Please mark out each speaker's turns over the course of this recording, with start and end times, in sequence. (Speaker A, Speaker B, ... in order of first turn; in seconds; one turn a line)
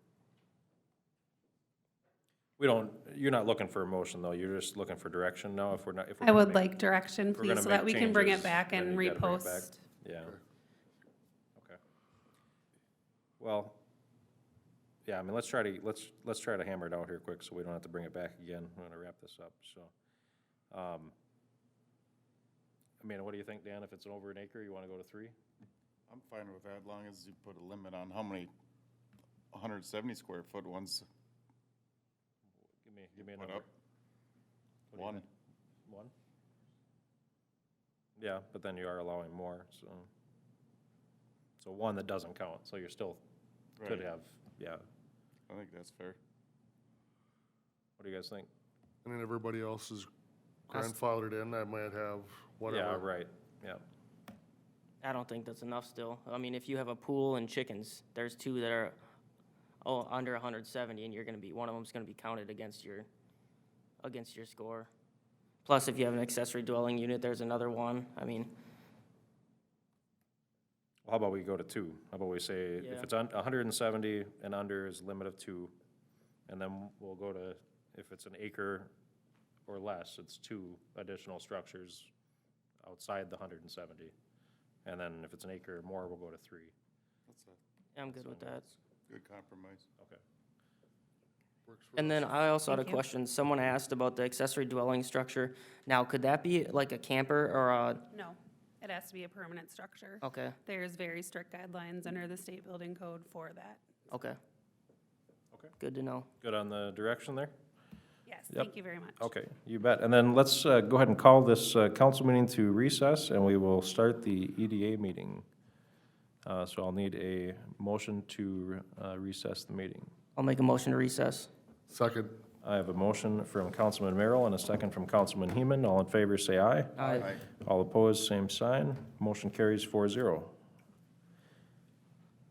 Speaker A: 2.6-6.7
Speaker B: 6.2-9.8
Speaker A: 7.3-10.3
Speaker A: 13.4-13.8
Speaker A: 15.1-19.9
Speaker A: 20.7-21.1
Speaker A: 23.0-25.3
Speaker C: 26.1-28.5
Speaker C: 29.5-31.1
Speaker A: 32.8-33.6
Speaker C: 33.1-33.7
Speaker A: 34.9-35.3
Speaker C: 35.0-35.2
Speaker A: 35.9-36.1
Speaker A: 38.2-40.1
Speaker A: 41.6-43.2
Speaker C: 43.8-44.0
Speaker A: 43.8-44.8
Speaker C: 45.5-46.2
Speaker A: 48.0-48.5
Speaker D: 49.0-50.1
Speaker D: 50.7-53.0
Speaker A: 52.7-53.8
Speaker E: 55.0-59.0
Speaker E: 59.8-63.1
Speaker E: 64.0-64.9
Speaker E: 65.6-68.5
Speaker A: 71.0-75.7
Speaker E: 72.8-73.1
Speaker A: 76.5-78.9
Speaker A: 79.7-82.1
Speaker A: 82.8-84.1
Speaker A: 84.8-86.7
Speaker C: 87.3-87.6
Speaker E: 88.0-88.6
Speaker A: 88.1-88.8
Speaker C: 89.1-89.8
Speaker D: 91.7-92.3
Speaker E: 92.0-98.0
Speaker B: 92.7-93.0
Speaker B: 98.1-103.8
Speaker E: 100.2-100.6
Speaker E: 104.1-104.4
Speaker E: 105.8-106.3
Speaker A: 106.4-107.5
Speaker B: 108.3-109.3
Speaker A: 108.5-115.5
Speaker A: 116.5-120.1
Speaker E: 120.3-121.5
Speaker D: 121.9-122.3
Speaker A: 122.6-130.5
Speaker E: 127.0-127.3